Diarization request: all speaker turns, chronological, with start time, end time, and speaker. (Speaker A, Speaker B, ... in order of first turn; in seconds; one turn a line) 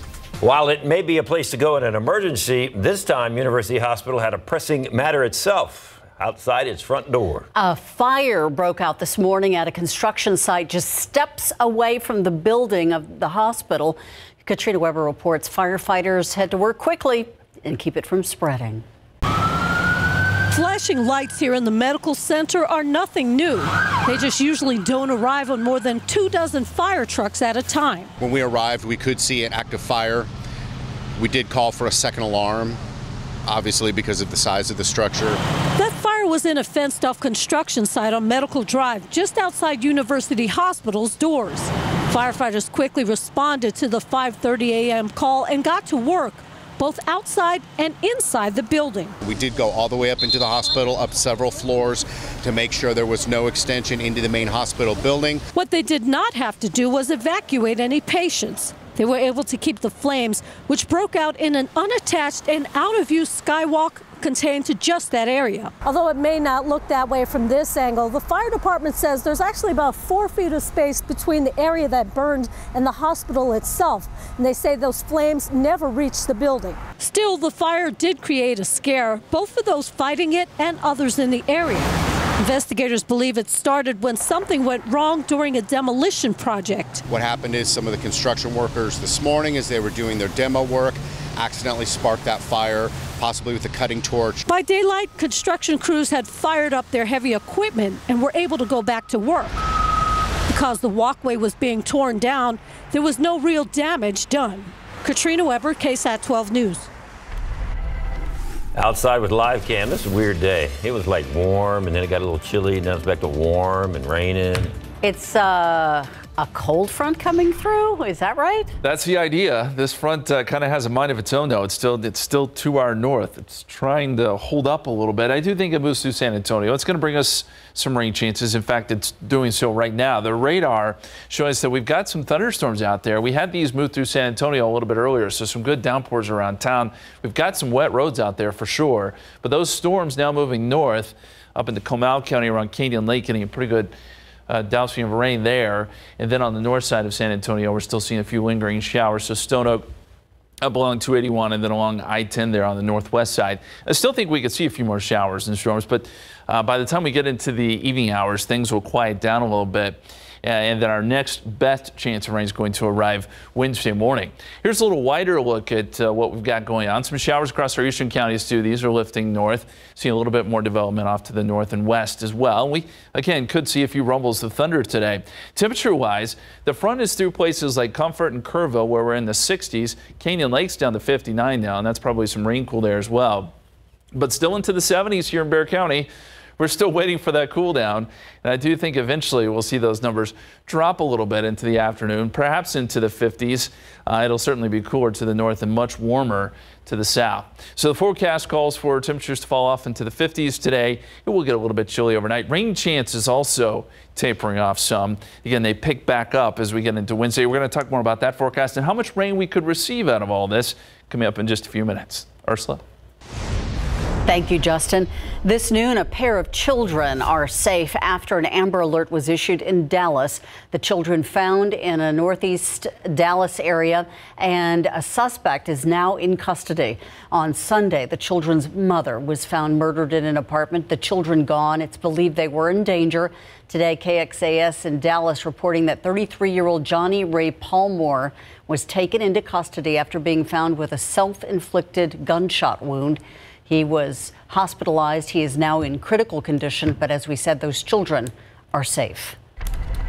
Speaker A: 0.4-7.5
Speaker B: 7.5-18.8
Speaker C: 20.5-28.1
Speaker D: 28.2-30.3
Speaker D: 31.2-32.8
Speaker D: 33.5-35.4
Speaker C: 35.8-49.1
Speaker D: 49.2-55.4
Speaker C: 55.5-87.0
Speaker D: 87.1-94.4
Speaker C: 94.4-99.5
Speaker C: 100.5-106.9
Speaker A: 108.8-114.7
Speaker B: 115.0-118.7
Speaker E: 118.8-143.9
Speaker E: 144.5-149.8
Speaker E: 150.6-183.5
Speaker E: 184.1-212.8
Speaker B: 214.3-249.4